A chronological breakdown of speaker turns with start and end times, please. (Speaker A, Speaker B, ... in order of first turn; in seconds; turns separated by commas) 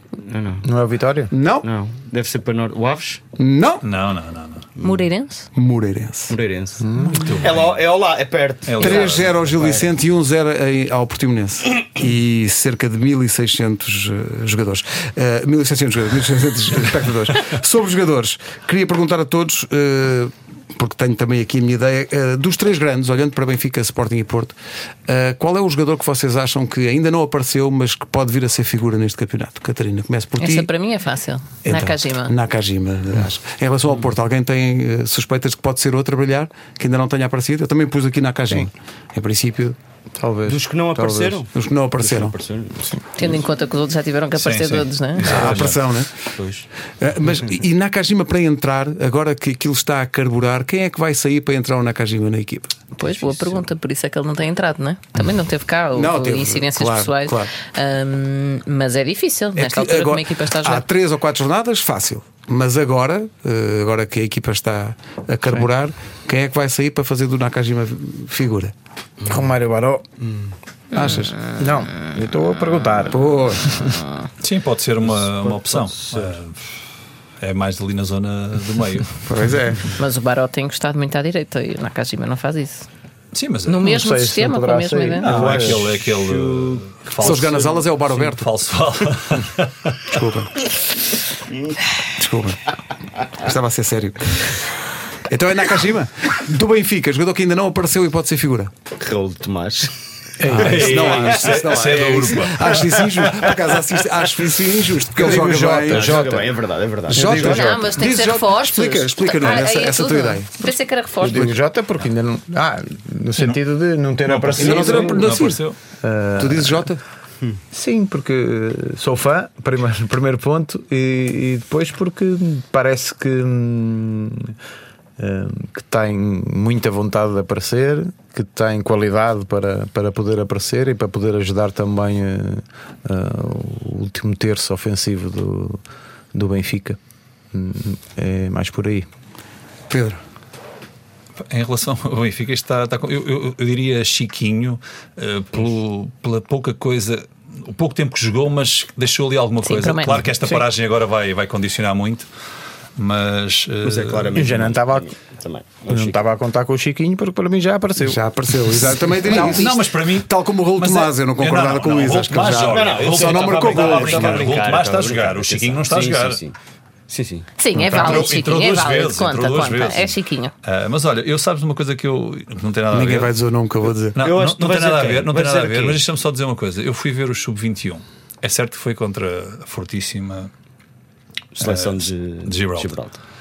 Speaker A: 0.2-0.7, Speaker B: 0.6-1.3, Speaker C: 1.3-1.7, Speaker A: 1.6-3.2, Speaker C: 3.4-3.9, Speaker D: 3.8-4.7, Speaker A: 4.8-5.1, Speaker E: 4.8-5.5, Speaker C: 5.5-6.4, Speaker A: 6.3-9.9, Speaker B: 6.8-7.3, Speaker D: 7.0-7.8, Speaker D: 8.7-9.3, Speaker C: 8.8-24.6, Speaker C: 25.1-30.7, Speaker E: 30.4-32.4, Speaker C: 31.6-39.8, Speaker B: 40.1-41.5, Speaker A: 40.5-43.4, Speaker C: 41.5-42.4, Speaker E: 43.2-45.5, Speaker D: 44.4-45.8, Speaker C: 45.2-46.1, Speaker A: 46.4-46.7, Speaker C: 47.0-52.8, Speaker E: 53.0-60.8, Speaker A: 53.0-53.6, Speaker C: 55.9-57.5, Speaker C: 59.6-68.7, Speaker B: 69.3-70.0, Speaker A: 70.2-70.5, Speaker C: 70.9-71.4, Speaker B: 71.6-73.2, Speaker C: 73.1-73.9, Speaker D: 74.4-76.6, Speaker A: 75.0-76.4, Speaker D: 77.4-79.2, Speaker C: 79.3-79.8, Speaker B: 79.3-79.6, Speaker E: 80.0-82.9, Speaker D: 83.3-83.9, Speaker E: 83.7-85.4, Speaker B: 83.8-85.9, Speaker D: 85.2-90.1, Speaker A: 85.3-87.7, Speaker C: 87.2-88.5, Speaker C: 90.1-90.5, Speaker C: 92.2-92.6, Speaker C: 93.4-94.6, Speaker C: 95.3-98.7, Speaker A: 99.0-99.9, Speaker C: 100.4-106.3, Speaker B: 100.4-100.9, Speaker D: 100.5-102.9, Speaker A: 100.6-103.4, Speaker B: 105.1-106.5, Speaker A: 105.6-107.7, Speaker B: 107.1-107.8, Speaker C: 107.1-110.7, Speaker E: 107.4-111.5, Speaker B: 111.2-115.4, Speaker D: 114.2-115.8, Speaker C: 114.6-115.6, Speaker B: 116.0-116.9, Speaker C: 116.4-117.0, Speaker B: 117.7-124.5, Speaker B: 125.2-135.8, Speaker B: 136.3-137.0, Speaker B: 137.5-139.1, Speaker C: 139.9-140.2, Speaker D: 141.4-152.3, Speaker E: 149.6-150.2, Speaker D: 153.0-154.6, Speaker A: 153.8-156.2, Speaker B: 154.3-155.1, Speaker B: 155.9-159.3, Speaker C: 158.0-164.6, Speaker E: 159.2-159.8, Speaker D: 159.3-166.4, Speaker A: 162.7-166.6, Speaker A: 167.1-167.5, Speaker E: 167.6-170.5, Speaker D: 167.8-173.3, Speaker C: 172.9-174.2, Speaker D: 174.2-180.5, Speaker A: 174.2-176.0, Speaker A: 181.6-183.2, Speaker D: 181.6-183.0